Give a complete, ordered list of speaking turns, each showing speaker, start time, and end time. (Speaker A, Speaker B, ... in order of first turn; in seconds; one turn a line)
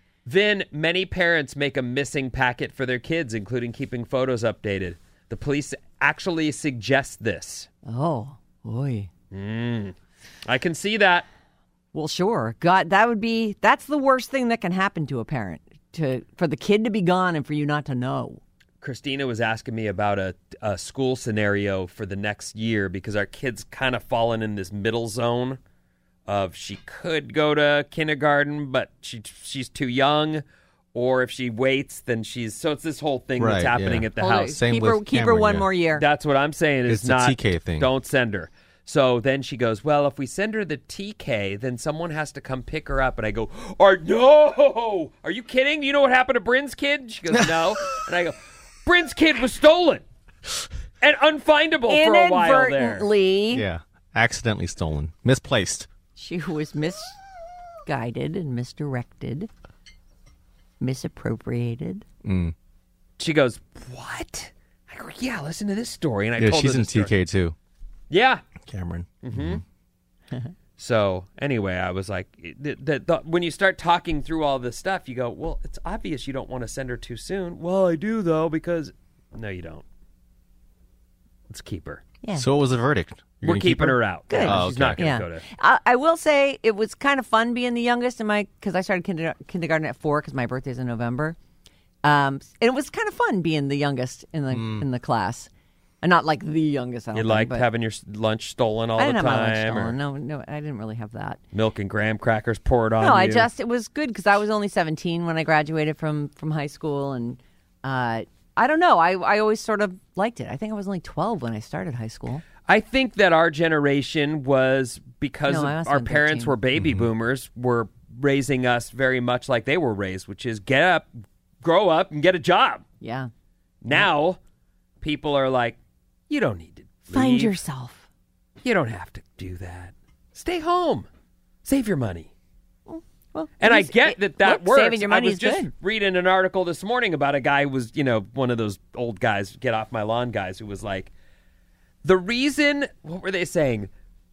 Speaker A: 0.3-7.7
Speaker B: 7.9-9.1
Speaker A: 9.3-11.3
Speaker B: 11.9-18.4
Speaker A: 18.8-25.6
Speaker A: 26.3-34.6
Speaker C: 33.4-35.7
Speaker B: 34.2-36.0
Speaker A: 36.0-50.0
Speaker C: 36.9-37.9
Speaker A: 51.0-53.1
Speaker B: 51.9-53.6
Speaker C: 53.5-55.9
Speaker B: 56.2-57.2
Speaker B: 57.9-59.5
Speaker B: 60.8-62.0
Speaker C: 62.2-62.5
Speaker A: 63.2-67.1
Speaker C: 66.4-67.5
Speaker A: 68.1-68.5
Speaker C: 68.6-69.6
Speaker A: 69.2-69.6
Speaker A: 70.8-79.8
Speaker A: 81.5-82.0
Speaker B: 82.2-82.5
Speaker C: 82.4-85.1
Speaker A: 83.4-85.4
Speaker B: 84.3-91.4
Speaker B: 92.0-95.5
Speaker C: 94.5-94.9
Speaker B: 96.0-97.7
Speaker A: 97.1-100.0
Speaker B: 99.0-101.4
Speaker A: 101.5-103.5
Speaker B: 103.0-112.4
Speaker A: 112.7-121.1
Speaker B: 115.5-116.5
Speaker C: 116.8-117.1
Speaker A: 121.6-122.8
Speaker B: 123.0-123.3
Speaker A: 123.8-124.4
Speaker A: 125.0-125.8
Speaker A: 126.3-127.6
Speaker B: 127.1-128.1
Speaker A: 128.6-131.1
Speaker A: 131.7-132.3
Speaker B: 132.9-135.7
Speaker A: 133.6-141.1
Speaker A: 142.0-143.9